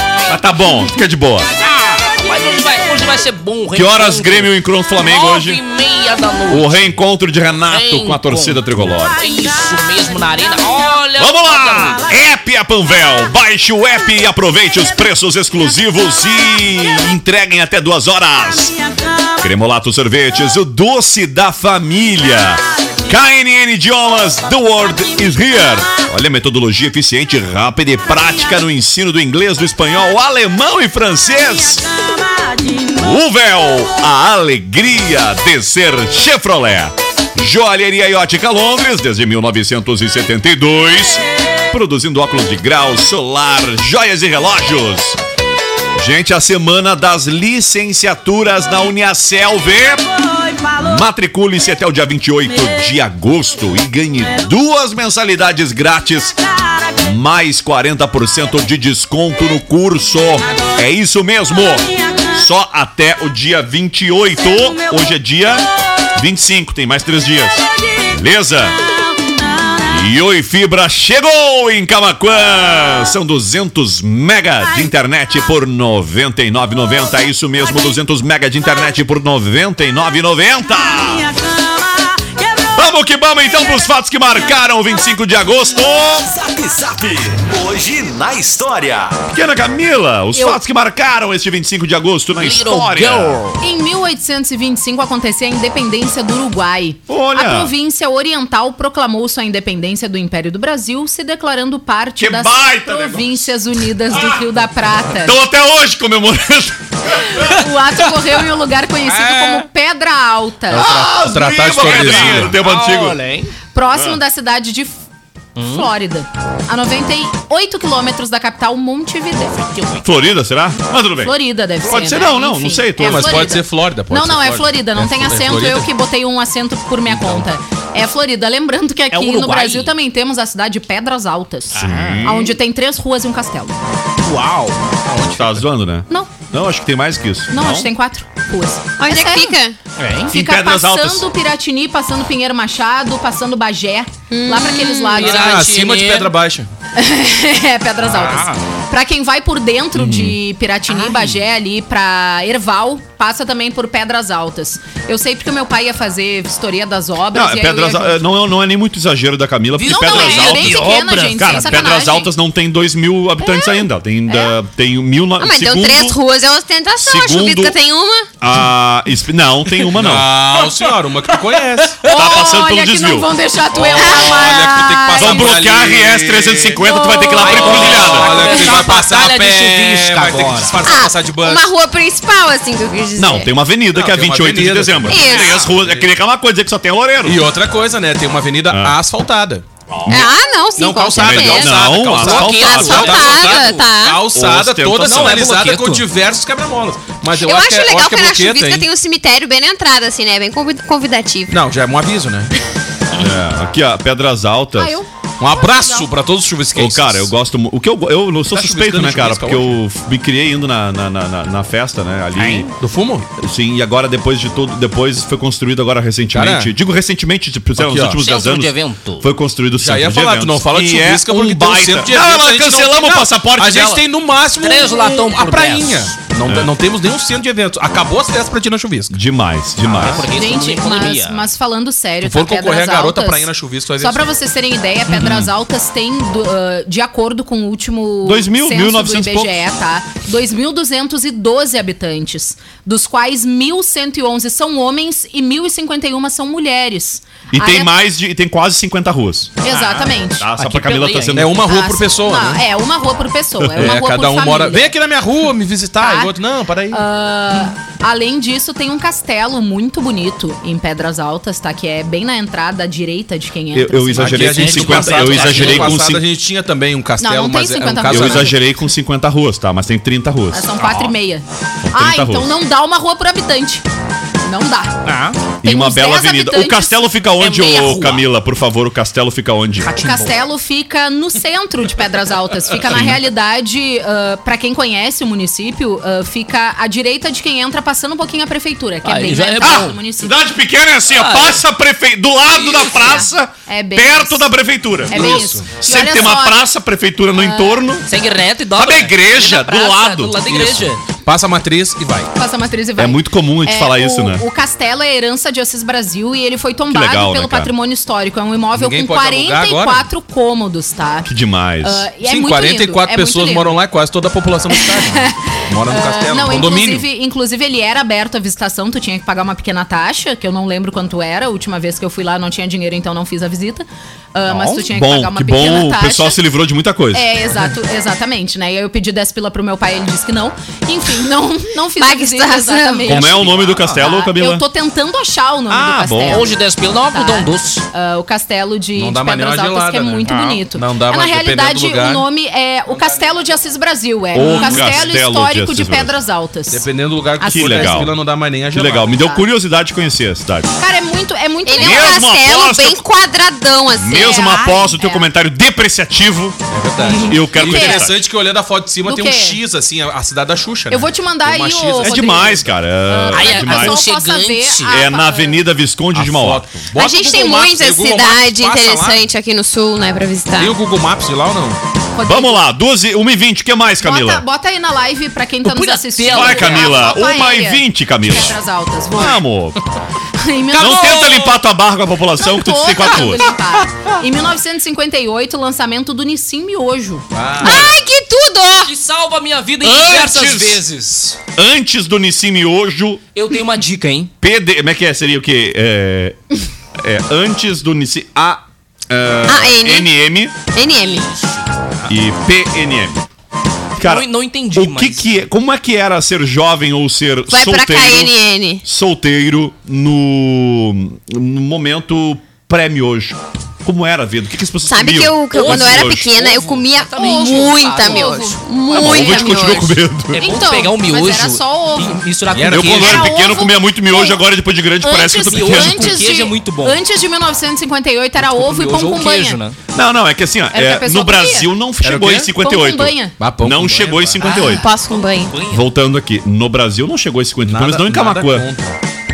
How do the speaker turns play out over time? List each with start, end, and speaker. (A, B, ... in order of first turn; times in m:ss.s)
0:00.3-0:01.5 A
0:01.6-0:06.8 B
0:03.7-0:05.6 A
0:06.5-0:09.2 A
0:07.7-0:12.0 B
0:11.2-0:18.8 A
0:19.4-0:31.9 A
0:32.8-0:45.2 A
0:46.0-0:50.1 A
0:50.6-0:56.4 A
0:57.0-1:08.8 A
1:09.8-1:21.3 A
1:22.8-1:26.3 A
1:26.2-1:29.2 C
1:29.3-1:33.4 A
1:32.4-1:33.6 B
1:33.6-1:45.4 D
1:37.1-1:37.7 A
1:42.2-1:43.5 A
1:44.1-1:44.4 A
1:45.1-1:47.6 A
1:47.3-1:50.9 D
1:49.0-1:49.7 B
1:50.7-1:52.6 E
1:50.7-1:53.2 A
1:51.8-1:53.5 B
1:53.7-1:55.0 D
1:53.9-1:54.2 A
1:55.6-1:55.9 B
1:55.6-1:59.6 D
1:59.5-2:00.1 B
2:00.0-2:03.6 A
2:01.2-2:13.7 D
2:03.0-2:05.9 E
2:07.1-2:07.5 E
2:09.1-2:09.9 B
2:11.7-2:12.2 B
2:11.7-2:12.6 A
2:14.2-2:14.8 B
2:15.1-2:15.6 E
2:15.4-2:17.9 A
2:16.1-2:16.4 D
2:17.5-2:19.6 D
2:19.0-2:19.8 F
2:20.0-2:20.3 B
2:20.3-2:21.2 A
2:20.3-2:25.6 D
2:24.3-2:25.4 F
2:25.2-2:26.3 B
2:25.2-2:26.7 E
2:27.0-2:38.2 D
2:28.1-2:28.6 B
2:30.0-2:30.4 A
2:30.9-2:31.3 B
2:37.3-2:46.2 A
2:39.8-2:42.0 B
2:39.8-2:42.3 D
2:43.4-2:43.8 F
2:45.4-2:48.3 F
2:47.0-2:47.8 A
2:48.4-2:50.3 A
2:49.9-2:52.0 E
2:52.0-2:55.5 D
2:52.1-2:53.3 A
2:53.7-2:56.8 E
2:55.2-2:58.4 A
2:56.8-2:57.6 F
2:57.4-3:01.6 E
2:57.4-3:00.8 B
2:58.2-2:58.5 D
3:00.8-3:03.5 F
3:03.2-3:07.4 A
3:03.9-3:06.1 E
3:05.1-3:05.7 F
3:07.2-3:10.1 E
3:08.7-3:09.0 A
3:10.0-3:10.3 A
3:10.1-3:11.9 F
3:10.8-3:18.9 E
3:11.1-3:13.3 A
3:12.1-3:13.9 B
3:12.6-3:14.2 F
3:14.3-3:15.4 A
3:15.0-3:16.1 B
3:17.3-3:21.6 F
3:21.5-3:22.5 E
3:23.2-3:25.0 A
3:24.8-3:26.1 D
3:25.4-3:27.3 E
3:26.8-3:32.7 A
3:28.5-3:29.8 E
3:32.4-3:32.7 B
3:32.7-3:33.2 E
3:33.4-3:44.0 A
3:36.3-3:36.7 E
3:37.8-3:38.2 E
3:38.2-3:39.3 B
3:39.8-3:49.2 E
3:44.6-3:46.1 B
3:46.5-3:46.7 A
3:49.1-3:50.2 A
3:49.9-3:50.2 E
3:49.9-3:51.5 B
3:50.4-4:07.9 D
3:52.2-3:54.3 E
3:55.1-3:55.5 A
3:58.2-3:59.6 A
4:07.5-4:09.6 A
4:09.6-4:10.5 D
4:09.7-4:11.4 B
4:10.4-4:11.6 A
4:11.3-4:12.6 E
4:11.6-4:14.9 D
4:13.6-4:14.0 A
4:13.8-4:17.0 E
4:16.0-4:16.3 D
4:16.9-4:24.6 D
4:23.7-4:26.2 A
4:24.2-4:28.6 E
4:24.4-4:26.0 B
4:27.2-4:28.6 D
4:28.1-4:30.7 A
4:30.5-4:33.8 D
4:31.8-4:32.6 A
4:34.4-4:35.0 D
4:35.0-4:35.4 B
4:35.6-4:37.0 D
4:35.6-4:39.9 A
4:37.4-4:38.2 B
4:39.8-4:40.4 B
4:40.0-4:50.4 D
4:42.8-4:43.2 A
4:49.0-4:50.0 B
4:49.6-4:58.1 A
4:51.1-4:51.6 B
4:52.8-4:54.5 D
4:55.1-4:56.6 D
4:55.2-4:55.6 E
4:57.4-4:57.8 D
4:58.1-5:01.0 B
4:58.8-5:00.4 A
5:00.5-5:02.3 E
5:02.4-5:11.3 D
5:03.0-5:04.4 A
5:06.9-5:07.7 A
5:08.8-5:10.1 E
5:11.2-5:12.1 A
5:11.8-5:13.8 D
5:12.2-5:17.1 E
5:14.7-5:26.4 D
5:24.6-5:27.3 A
5:27.1-5:36.5 D
5:32.0-5:33.4 F
5:33.1-5:34.6 A
5:35.7-5:36.5 A
5:36.3-5:37.9 B
5:37.1-5:48.1 D
5:39.0-5:42.3 E
5:40.3-5:40.6 B
5:42.9-5:43.2 E
5:44.3-5:46.1 A
5:44.5-5:44.9 E
5:46.7-5:49.2 E
5:47.5-5:48.2 A
5:48.7-5:50.7 A
5:49.2-5:49.4 D
5:50.8-5:52.2 D
5:51.6-5:54.8 F
5:51.8-5:53.0 A
5:53.9-5:56.6 A
5:54.2-5:55.2 D
5:56.7-6:02.5 E
5:57.0-5:58.1 D
5:57.2-5:58.2 A
5:59.0-5:59.6 D
6:00.9-6:05.6 D
6:02.0-6:04.0 A
6:03.3-6:05.0 B
6:04.9-6:06.7 A
6:06.1-6:09.2 E
6:06.9-6:10.8 F
6:10.6-6:11.8 E
6:12.1-6:12.6 D
6:12.2-6:14.4 A
6:14.0-6:19.4 D
6:15.6-6:17.0 B
6:16.3-6:18.6 A
6:19.1-6:19.8 A
6:20.4-6:21.2 D
6:20.7-6:21.6 B
6:20.8-6:23.5 A
6:22.4-6:27.2 D
6:27.3-6:27.9 E
6:27.6-6:27.9 A
6:27.6-6:28.9 F
6:28.8-6:31.4 B
6:29.8-6:30.8 A
6:31.6-6:33.2 A
6:33.3-6:34.3 B
6:34.4-6:36.4 A
6:37.0-6:40.6 A
6:39.5-6:40.1 F
6:40.7-6:41.3 F
6:40.9-6:42.1 B
6:42.1-6:43.2 A
6:44.0-6:56.3 A
6:44.0-6:45.3 B
6:47.5-6:48.8 F
6:54.8-7:00.0 F
6:55.5-6:59.6 B
6:57.2-6:58.6 D
6:58.9-7:00.5 A
7:00.3-7:03.3 B
7:00.4-7:02.2 D
7:02.5-7:03.1 E
7:02.7-7:06.2 A
7:02.9-7:04.4 D
7:05.0-7:09.6 D
7:05.4-7:07.0 B
7:08.4-7:09.8 B
7:09.9-7:14.8 A
7:10.7-7:11.7 D
7:12.0-7:12.5 E
7:12.6-7:13.3 D
7:13.4-7:14.4 E
7:14.4-7:15.9 B
7:14.4-7:15.6 F
7:15.7-7:18.7 A
7:17.6-7:19.0 E